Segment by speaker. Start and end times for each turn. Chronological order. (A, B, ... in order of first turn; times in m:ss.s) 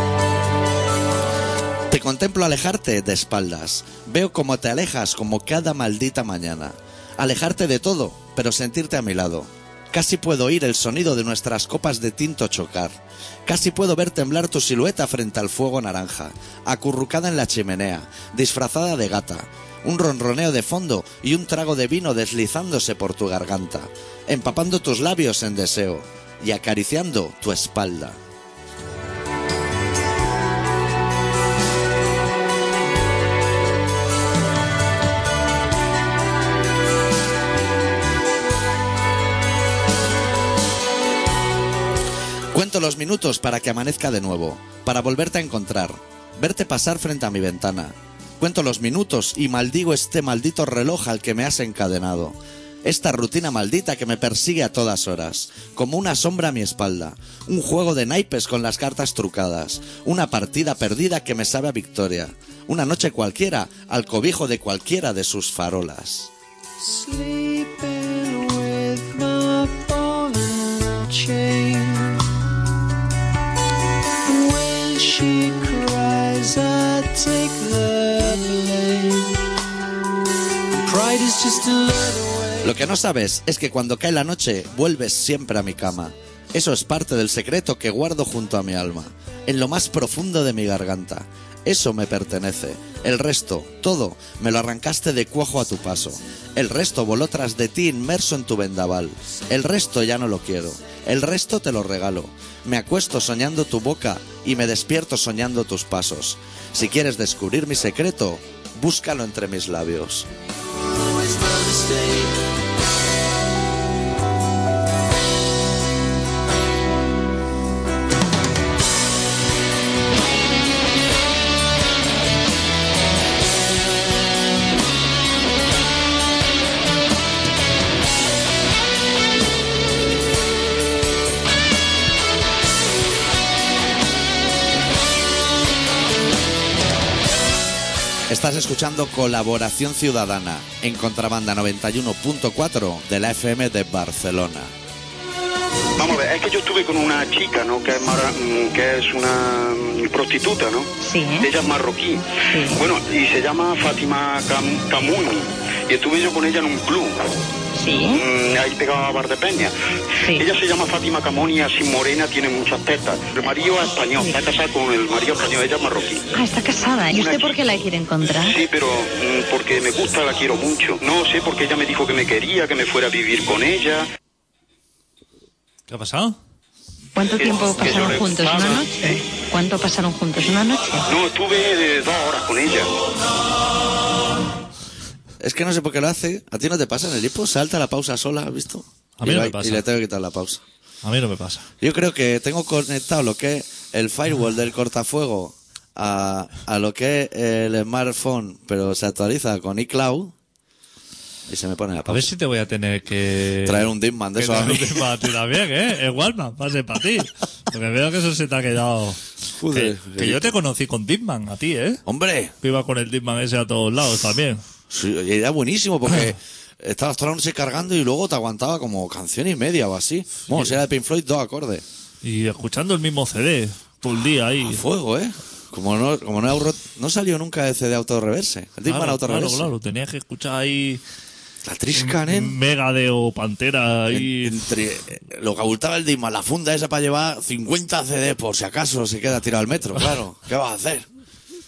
0:01.9-0:28.2 A
0:42.5-1:06.3 A
1:06.8-1:12.2 B
1:14.2-1:19.4 B
1:20.8-1:22.8 B
1:22.6-1:50.3 A
2:18.3-2:24.7 A
2:26.0-2:37.3 C
2:31.0-2:31.5 D
2:32.5-2:32.8 D
2:37.8-2:38.2 D
2:37.9-2:39.7 C
2:40.2-2:46.3 C
2:46.3-2:48.6 D
2:47.1-2:47.6 C
2:48.4-2:54.1 C
2:55.9-2:56.4 E
2:57.1-3:01.1 D
2:57.3-2:59.2 C
3:01.1-3:02.9 C
3:05.4-3:10.6 A
3:09.2-3:09.8 E
3:11.0-3:11.7 E
3:11.8-3:20.3 A
3:21.5-3:22.3 A
3:22.1-3:32.0 E
3:23.6-3:25.1 A
3:29.6-3:30.5 A
3:32.0-3:32.5 A
3:32.6-3:34.6 E
3:34.9-3:41.8 A
3:40.5-3:40.8 E
3:42.2-3:44.8 E
3:44.6-3:49.7 A
3:48.8-3:51.0 E
3:51.6-3:52.6 A
3:51.9-3:54.6 E
3:54.1-4:01.0 A